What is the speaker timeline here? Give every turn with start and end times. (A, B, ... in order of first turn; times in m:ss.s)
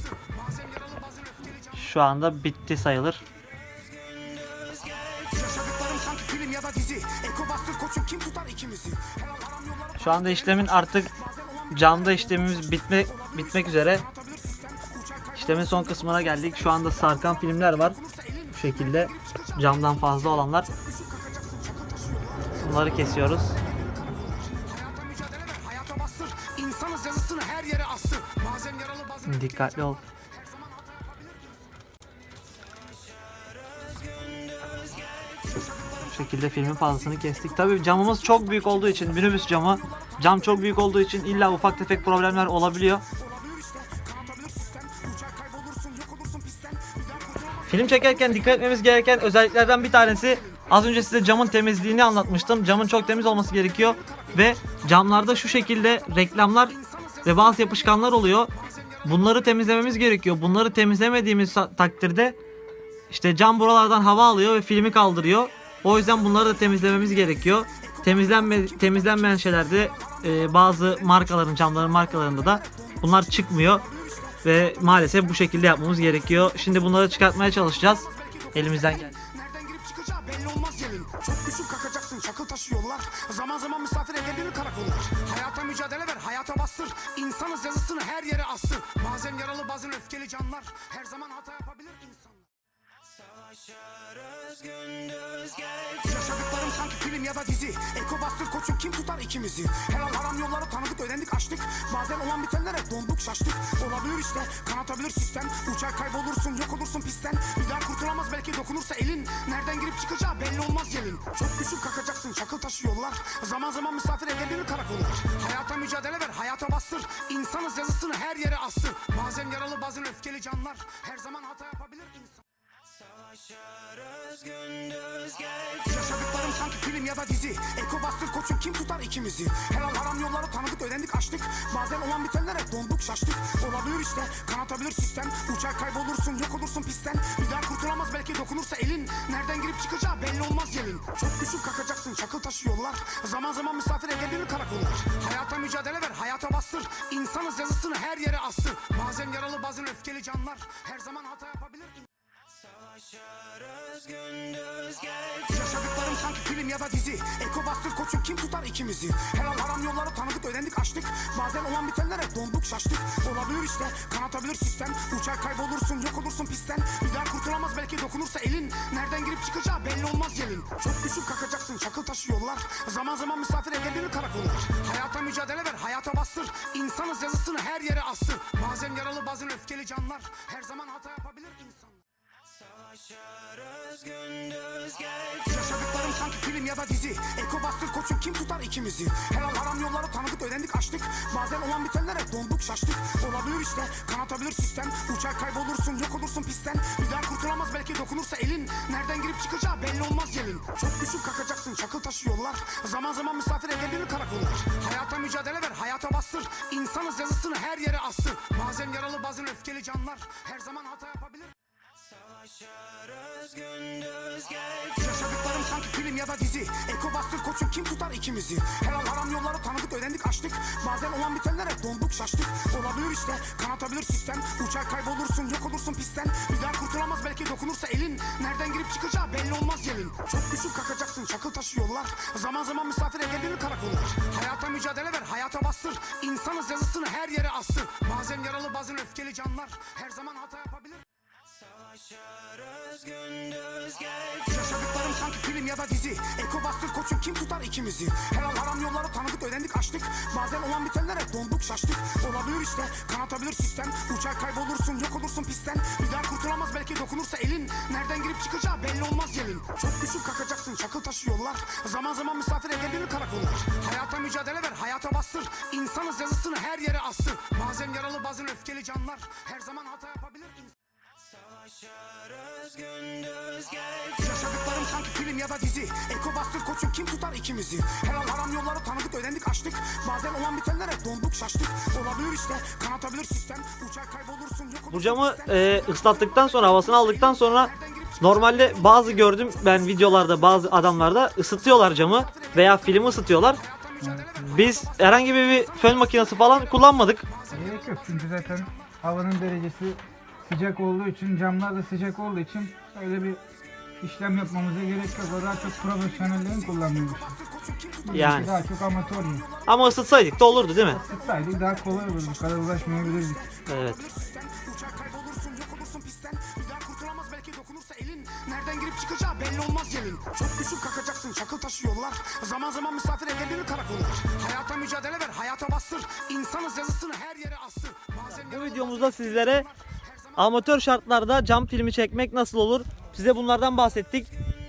0:01.7-0:03.2 A
0:05.8-0:09.2 B
0:10.0-0:11.1 A
0:11.7-0:14.1 A
0:15.4-0:18.0 A
0:18.5-0:20.7 A
0:22.6-0:23.6 A
0:25.8-0:28.4 B
0:29.2-0:30.0 A
0:36.1-0:43.0 A
0:47.7-0:58.5 A
0:59.0-1:02.4 A
1:03.1-1:13.9 A
1:14.4-1:19.2 A
1:20.6-1:31.9 B
1:36.6-2:01.8 B
2:06.3-2:30.9 B
2:36.0-3:01.6 B
3:05.9-3:30.5 B
3:35.6-4:00.0 B
4:05.0-4:29.4 B
4:35.0-4:43.8 B
4:44.9-4:53.6 A
4:54.0-4:54.3 C
4:54.4-4:57.2 A
4:57.5-5:03.4 C
5:04.0-5:07.4 C
5:08.0-5:09.5 C
5:08.1-5:08.6 A
5:09.6-5:11.0 A
5:10.9-5:13.5 C
5:13.7-5:14.1 A
5:15.8-5:16.6 B
5:18.0-5:28.0 B
5:28.3-5:29.7 A
5:30.4-5:34.3 A